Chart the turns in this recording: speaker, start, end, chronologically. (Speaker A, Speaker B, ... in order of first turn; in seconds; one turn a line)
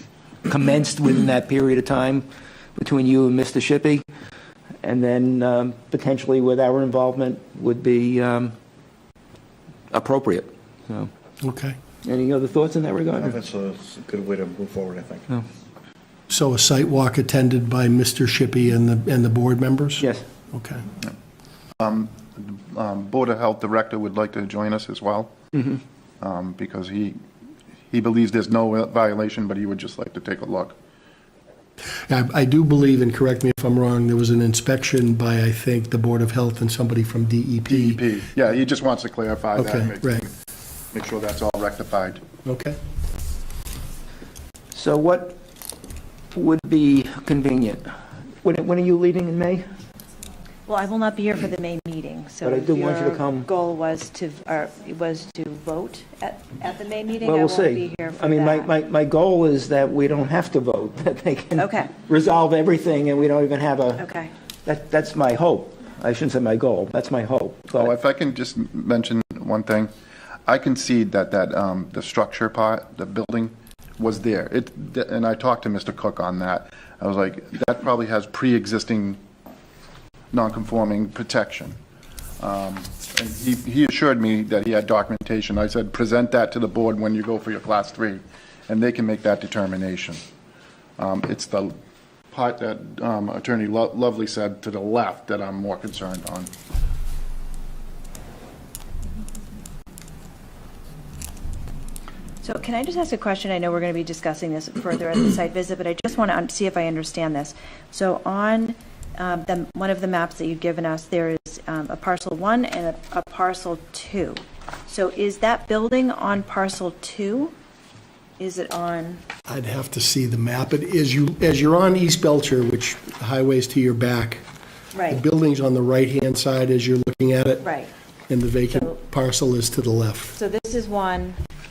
Speaker A: 0.5-4.1
Speaker A: 4.8-8.6
Speaker A: 9.9-11.1
Speaker B: 11.4-11.8
Speaker A: 12.0-13.4
Speaker C: 13.2-15.3
Speaker B: 16.3-20.9
Speaker A: 20.0-20.2
Speaker D: 21.8-25.3
Speaker A: 25.5-25.8
Speaker D: 26.2-27.2
Speaker D: 27.9-30.8
Speaker B: 32.1-38.0
Speaker D: 37.7-40.3
Speaker B: 39.5-40.3
Speaker D: 40.9-42.2
Speaker B: 42.4-42.8
Speaker A: 44.7-45.4
Speaker A: 46.3-47.9
Speaker A: 48.4-49.7
Speaker E: 50.7-58.7
Speaker A: 52.4-53.5
Speaker A: 57.2-64.0
Speaker E: 61.6-61.9
Speaker E: 64.0-64.3
Speaker A: 64.7-67.9
Speaker D: 67.8-69.9
Speaker D: 70.5-79.2
Speaker D: 80.3-81.8
Speaker D: 82.4-90.2
Speaker D: 91.0-91.8
Speaker D: 92.3-96.5
Speaker E: 102.4-117.5
Speaker E: 118.4-119.2
Speaker B: 119.5-124.5
Speaker E: 124.9-125.2
Speaker B: 125.1-127.7
Speaker E: 127.6-127.9
Speaker B: 128.3-130.4
Speaker E: 130.3-131.4